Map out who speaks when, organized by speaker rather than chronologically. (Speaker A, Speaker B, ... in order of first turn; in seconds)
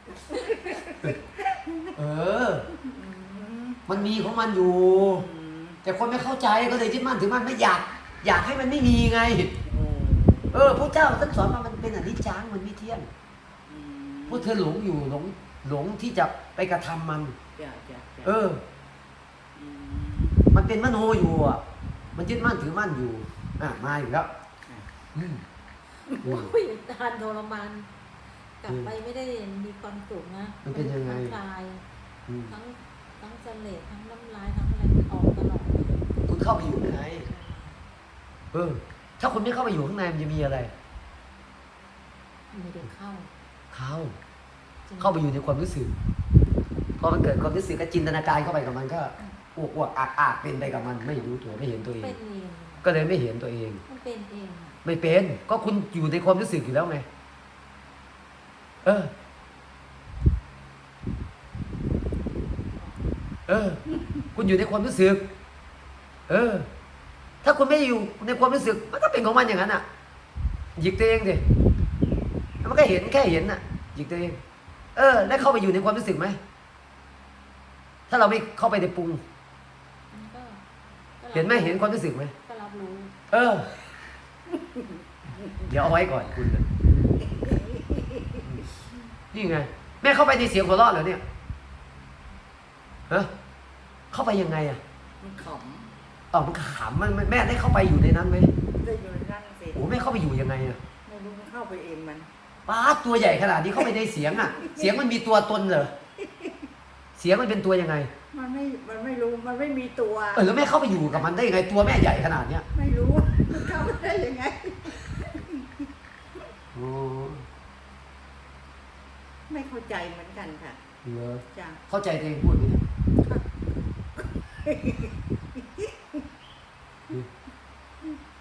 Speaker A: 0.2-2.0, 2.7-4.2, 5.0-5.8, 9.6-10.8, 13.7-14.6, 17.6-18.4, 19.6-20.5, 63.9-64.2, 84.6-85.4, 87.2-88.5, 95.2-95.9, 98.8-99.9, 101.0-102.3, 103.8-104.9, 106.2-106.7, 108.3-111.3, 112.8-115.9, 119.5-120.8, 121.5-121.8, 123.2-123.5, 124.2-126.2
Speaker B: 1.9-2.7, 3.9-5.2, 5.8-9.5, 10.5-13.1, 14.3-17.4, 18.2-18.6, 20.5-21.6, 22.2-24.3, 25.1-25.4, 26.2-26.5, 30.6-31.4, 32.3-32.5, 36.3-37.3, 38.5-40.7, 43.7-44.2, 45.0-45.9, 47.0-52.1, 52.8-53.8, 54.8-57.0, 58.8-59.1, 63.5-63.8, 64.3-65.2, 66.3-66.7, 67.4-69.8, 70.8-71.4, 72.6-74.4, 75.0-76.4, 78.1-79.2, 81.3-82.3, 83.3-83.7, 85.5-86.8, 89.3-91.2, 94.1-94.8, 96.3-98.5, 99.8-100.8, 102.7-105.9, 107.2-108.1, 110.3-112.7, 116.7-117.5, 121.0-122.9
Speaker C: 26.1-27.9, 28.6-31.8, 32.5-35.9, 37.0-37.8, 42.5-43.3, 44.9-45.3, 51.3-52.9, 53.9-54.8, 62.8-63.0, 80.1-80.6, 81.2-83.1